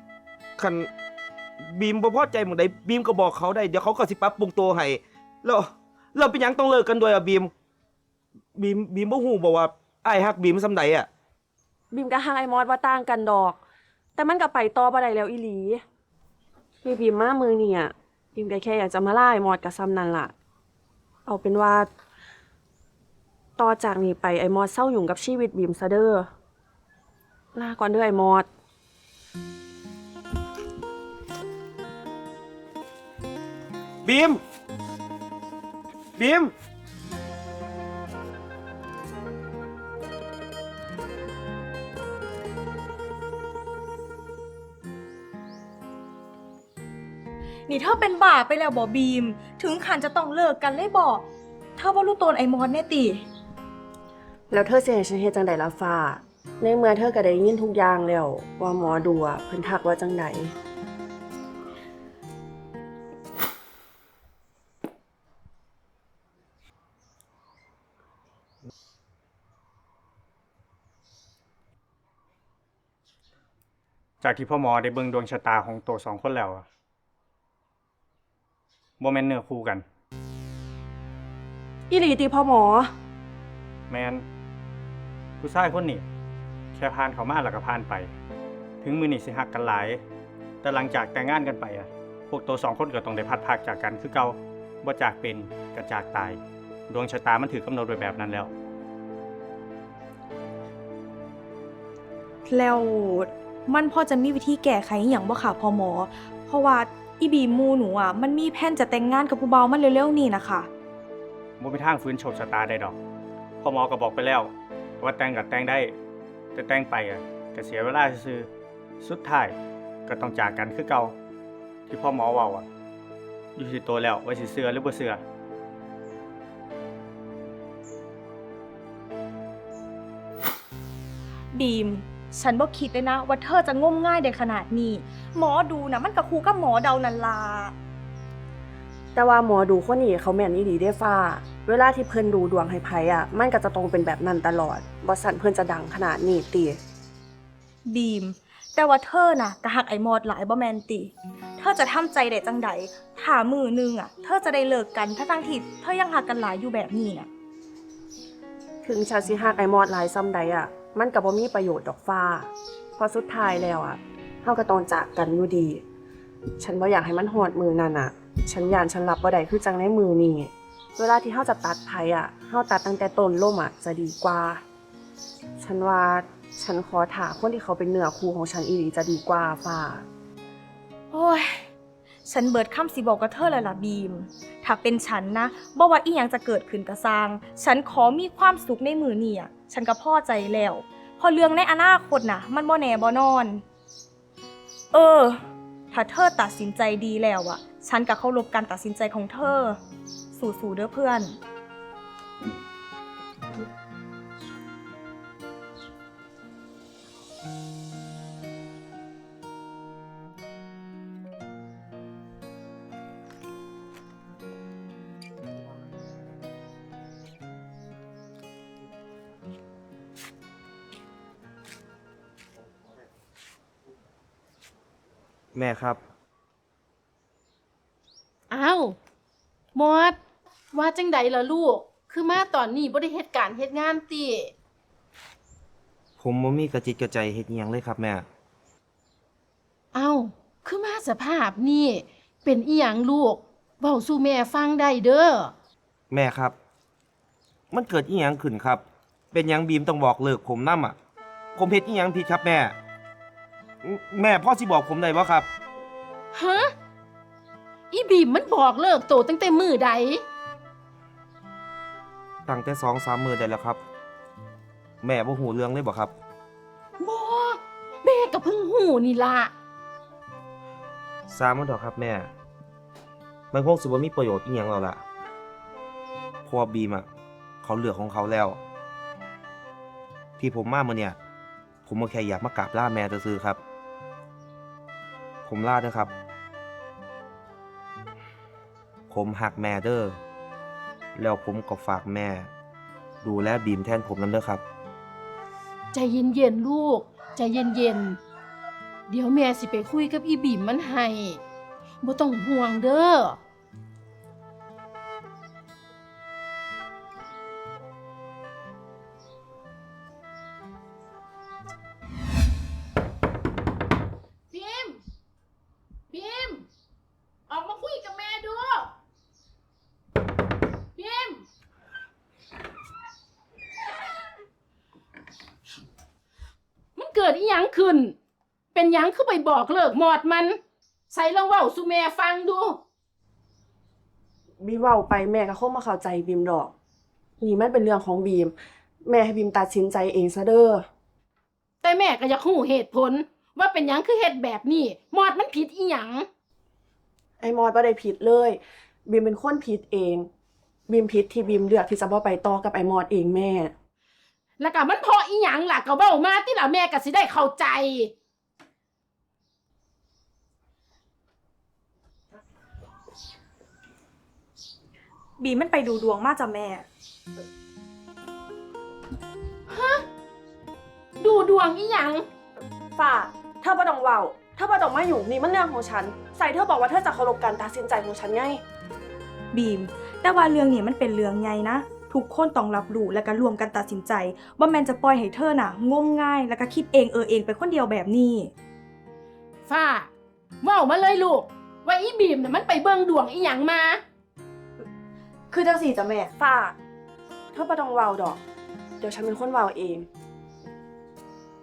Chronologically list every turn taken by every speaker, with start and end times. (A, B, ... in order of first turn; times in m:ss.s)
0:00.6-0:00.9 A
0:01.6-0:07.5 A
0:08.6-0:11.1 A
0:11.9-0:13.6 B
0:14.2-0:15.8 B
0:16.8-0:20.3 B
0:21.2-0:21.9 B
0:23.6-0:26.3 B
0:27.5-0:28.5 B
0:34.0-0:34.4 A
0:36.2-0:36.5 A
0:47.7-0:51.2 C
0:51.8-0:53.2 C
0:54.5-1:00.5 B
1:14.2-1:16.6 D
1:19.0-1:19.8 D
1:21.9-1:22.9 B
1:23.9-1:24.2 D
1:25.4-1:26.0 D
1:26.7-1:28.1 D
1:28.8-1:30.0 D
1:30.6-1:38.5 D
1:42.5-1:50.7 C
1:51.6-1:53.0 D
1:53.6-1:56.0 D
1:56.5-1:58.5 D
1:59.0-1:59.6 D
2:00.1-2:01.2 D
2:01.9-2:02.6 D
2:03.6-2:05.2 D
2:11.5-2:17.7 C
2:19.1-2:26.8 B
2:27.8-2:37.3 C
2:38.8-2:45.8 B
2:46.6-2:54.6 B
2:55.6-3:00.0 B
3:01.1-3:01.6 C
3:02.2-3:13.6 C
3:14.9-3:15.4 C
3:15.9-3:19.8 C
3:20.3-3:21.4 C
3:45.5-3:46.0 A
3:48.5-3:49.0 E
3:49.7-3:50.2 E
3:50.7-3:54.5 E
3:56.2-3:58.2 A
3:59.9-4:05.5 E
4:06.1-4:06.5 A
4:07.7-4:11.0 A
4:11.6-4:12.8 A
4:13.8-4:15.5 A
4:16.3-4:16.7 E
4:17.9-4:20.2 E
4:22.5-4:23.8 A
4:25.0-4:26.1 A
4:27.0-4:29.5 E
4:31.3-4:32.3 A
4:33.5-4:35.0 A
4:36.4-4:37.0 A
4:37.6-4:38.6 A
4:40.4-4:41.2 A
4:41.8-4:43.6 A
4:45.4-4:46.1 A
4:49.1-4:50.2 A
4:51.2-4:52.5 A
4:53.2-4:54.6 A
4:55.9-4:58.2 E
4:59.1-5:01.4 E
5:02.0-5:03.4 E
5:14.5-5:15.0 E
5:16.1-5:16.7 E
5:17.5-5:18.9 E
5:21.0-5:21.4 E
5:27.0-5:28.2 E
5:28.7-5:30.6 E
5:31.1-5:32.8 E
5:34.6-5:36.7 B
5:37.4-5:38.5 B
5:39.0-5:40.8 B
5:41.8-5:46.3 E
5:47.4-5:50.3 B
5:50.9-5:53.7 B
5:54.6-5:58.1 E
6:05.4-6:06.8 C
6:09.7-6:10.0 E
6:11.2-6:12.2 E
6:13.0-6:18.6 B
6:19.5-6:28.5 C
6:29.7-6:30.1 E
6:30.6-6:34.0 E
6:35.5-6:36.3 C
6:36.4-6:36.8 B
6:37.5-6:38.4 B
6:39.0-6:40.0 B